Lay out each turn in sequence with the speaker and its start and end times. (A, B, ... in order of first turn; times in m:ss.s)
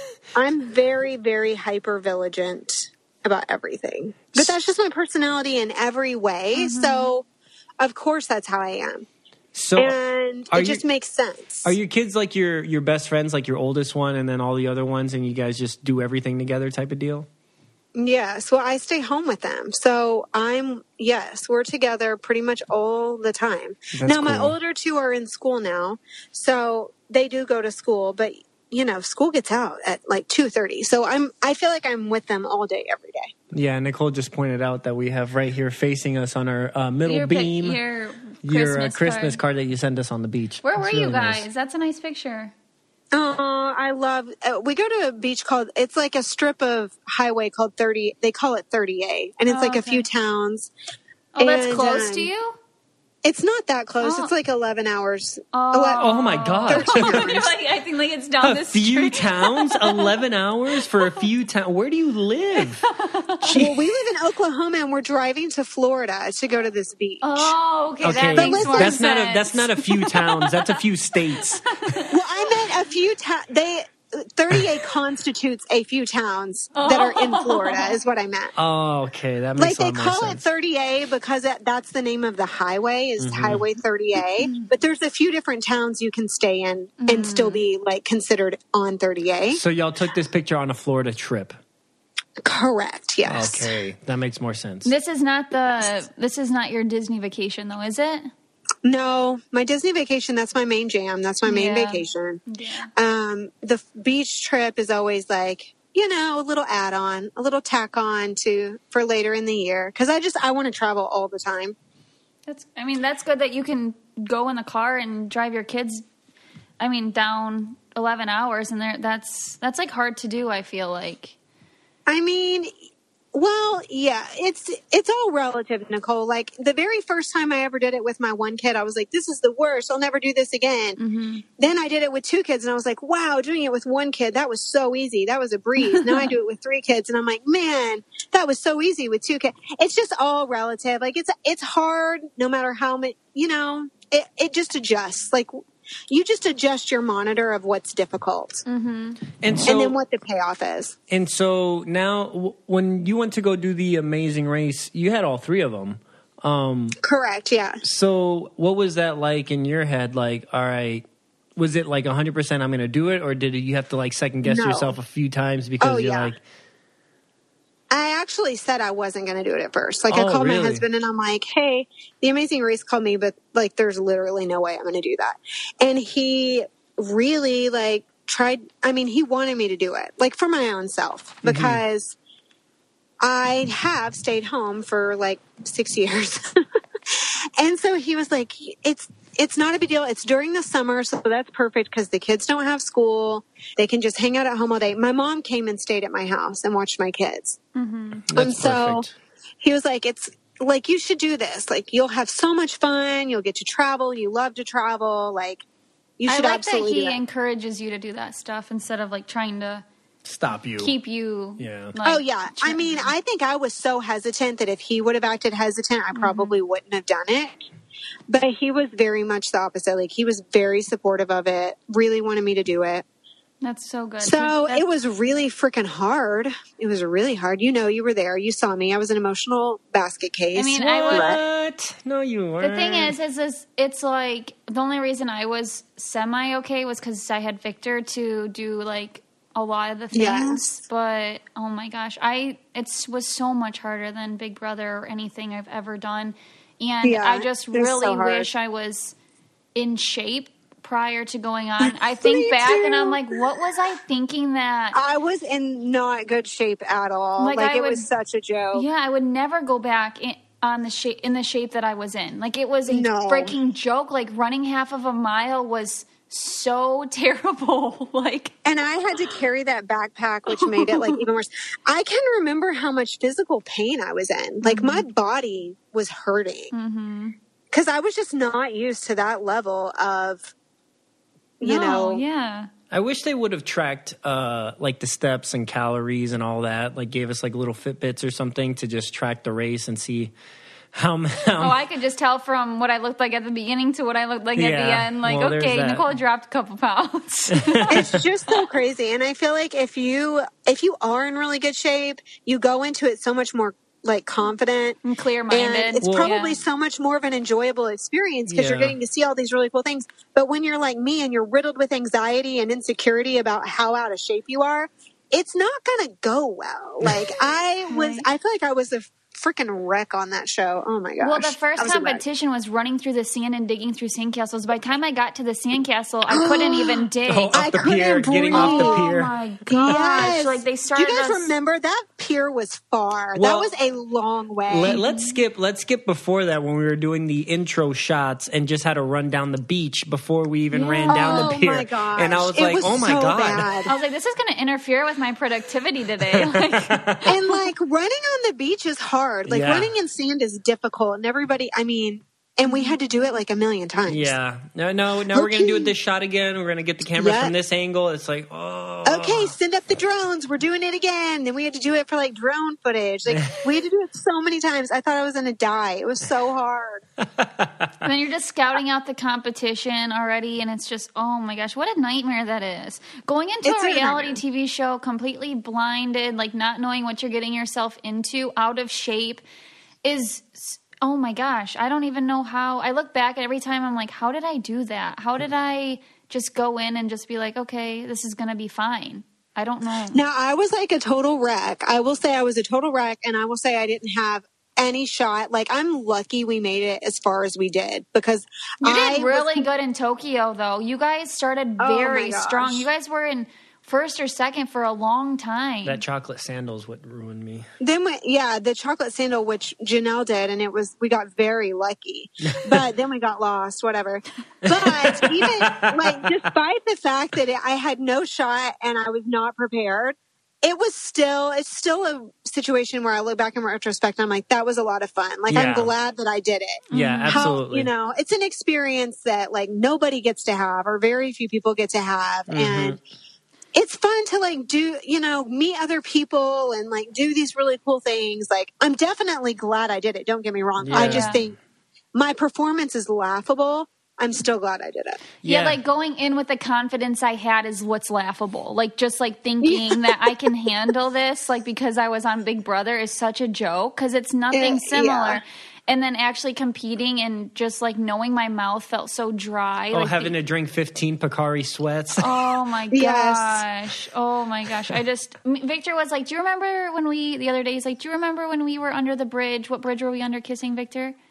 0:00.4-0:07.3 A
0:06.6-0:07.1 B
0:07.8-0:09.1 A
0:09.5-0:10.0 C
0:09.8-0:11.8 A
0:10.5-0:10.8 C
0:11.6-0:17.3 C
0:18.0-0:33.3 A
0:23.9-0:24.6 C
0:33.5-0:37.8 C
0:37.1-0:39.4 B
0:38.4-0:41.5 C
0:40.6-0:42.5 B
0:43.1-0:50.7 A
0:49.5-0:50.1 B
0:51.4-0:52.6 B
0:51.4-0:52.3 A
0:53.2-0:56.1 A
0:54.0-0:54.3 B
0:55.5-1:00.1 B
0:56.0-0:57.5 C
0:56.7-0:57.5 A
0:58.4-1:02.8 C
1:02.6-1:03.6 B
1:03.4-1:03.8 C
1:03.6-1:09.1 A
1:07.2-1:10.8 B
1:08.0-1:11.8 C
1:11.3-1:12.2 B
1:12.1-1:18.6 A
1:16.8-1:18.0 B
1:18.6-1:20.4 C
1:19.6-1:29.6 A
1:23.2-1:23.6 C
1:24.4-1:24.7 B
1:27.0-1:27.6 B
1:29.5-1:31.6 C
1:32.4-1:33.7 A
1:33.3-1:34.9 C
1:34.8-1:38.3 B
1:38.8-1:42.4 A
1:41.4-1:42.9 B
1:43.0-1:51.8 A
1:52.5-1:56.1 B
1:56.8-2:01.4 B
2:02.1-2:02.7 A
2:03.3-2:11.0 A
2:11.0-2:11.4 B
2:11.6-2:25.5 A
2:15.8-2:16.3 B
2:26.1-2:28.6 A
2:28.7-2:29.2 B
2:29.4-2:30.0 C
2:29.6-2:31.0 A
2:31.1-2:37.0 C
2:37.0-2:37.8 A
2:37.8-2:41.0 C
2:41.6-2:46.4 C
2:44.4-2:45.0 A
2:45.8-2:46.3 A
2:47.9-3:02.2 A
2:50.1-2:50.8 C
3:01.4-3:01.8 C
3:03.2-3:06.6 A
3:07.1-3:17.6 A
3:17.8-3:18.2 B
3:18.3-3:19.1 C
3:18.3-3:19.1 A
3:19.6-3:25.6 A
3:26.2-3:27.2 A
3:26.3-3:29.8 B
3:30.2-3:30.9 C
3:30.8-3:33.1 B
3:31.6-3:31.9 C
3:32.0-3:37.6 A
3:36.2-3:36.6 B
3:38.3-3:43.0 A
3:43.6-3:44.8 B
3:44.2-3:51.4 A
3:50.6-3:51.3 B
3:50.8-3:53.2 C
3:52.6-4:09.2 B
4:00.1-4:00.8 A
4:07.0-4:08.5 A
4:09.8-4:15.0 B
4:11.8-4:13.6 A
4:14.9-4:18.9 A
4:17.4-4:18.1 B
4:18.7-4:28.5 B
4:22.9-4:23.6 A
4:28.6-4:36.7 A
4:30.5-4:31.2 B
4:34.6-4:35.1 B
4:36.7-4:37.4 B
4:37.7-4:40.5 A
4:41.6-4:42.2 A
4:41.6-4:42.7 B
4:42.9-4:50.3 C
4:50.9-4:51.8 C
4:51.6-4:58.0 B
4:54.6-4:56.1 C
4:57.5-4:58.2 C
4:57.9-5:05.0 A
5:05.0-5:06.6 B
5:05.5-5:22.2 A
5:06.0-5:06.3 C
5:08.5-5:09.0 C
5:17.9-5:18.3 B
5:21.2-5:27.6 B
5:26.3-5:29.0 A
5:27.3-5:29.3 C
5:28.5-5:31.6 B
5:29.8-5:35.0 A
5:29.9-5:30.3 C
5:33.4-5:33.7 C
5:34.7-5:43.7 C
5:34.8-5:35.4 B
5:40.7-5:41.5 B
5:41.1-5:43.9 A
5:43.9-5:47.3 B
5:46.3-5:47.3 C
5:47.3-5:54.3 A
5:49.5-5:49.9 C
5:52.7-5:53.0 B
5:54.1-5:59.6 C
5:55.3-5:55.9 A
5:57.2-5:57.5 A
5:59.0-6:07.0 A
6:03.3-6:03.6 C
6:07.4-6:07.9 C
6:08.0-6:19.4 B
6:13.6-6:14.4 A
6:20.0-6:30.2 B
6:30.1-6:39.7 A
6:38.8-6:46.0 B
6:41.8-6:42.9 A
6:45.8-6:47.7 C
6:47.8-7:13.0 A
6:52.5-6:52.8 C
6:54.7-6:56.4 C
7:05.5-7:05.9 C
7:06.9-7:07.5 B
7:06.9-7:07.9 C
7:12.5-7:13.0 C
7:13.8-7:21.6 A
7:20.8-7:21.4 C
7:20.9-7:21.4 B
7:22.1-7:25.2 A
7:25.4-7:25.8 C
7:25.4-7:40.3 B
7:29.6-7:30.6 A
7:34.5-7:35.4 A
7:39.9-7:42.3 C
7:42.2-7:51.2 B
7:42.9-7:43.6 A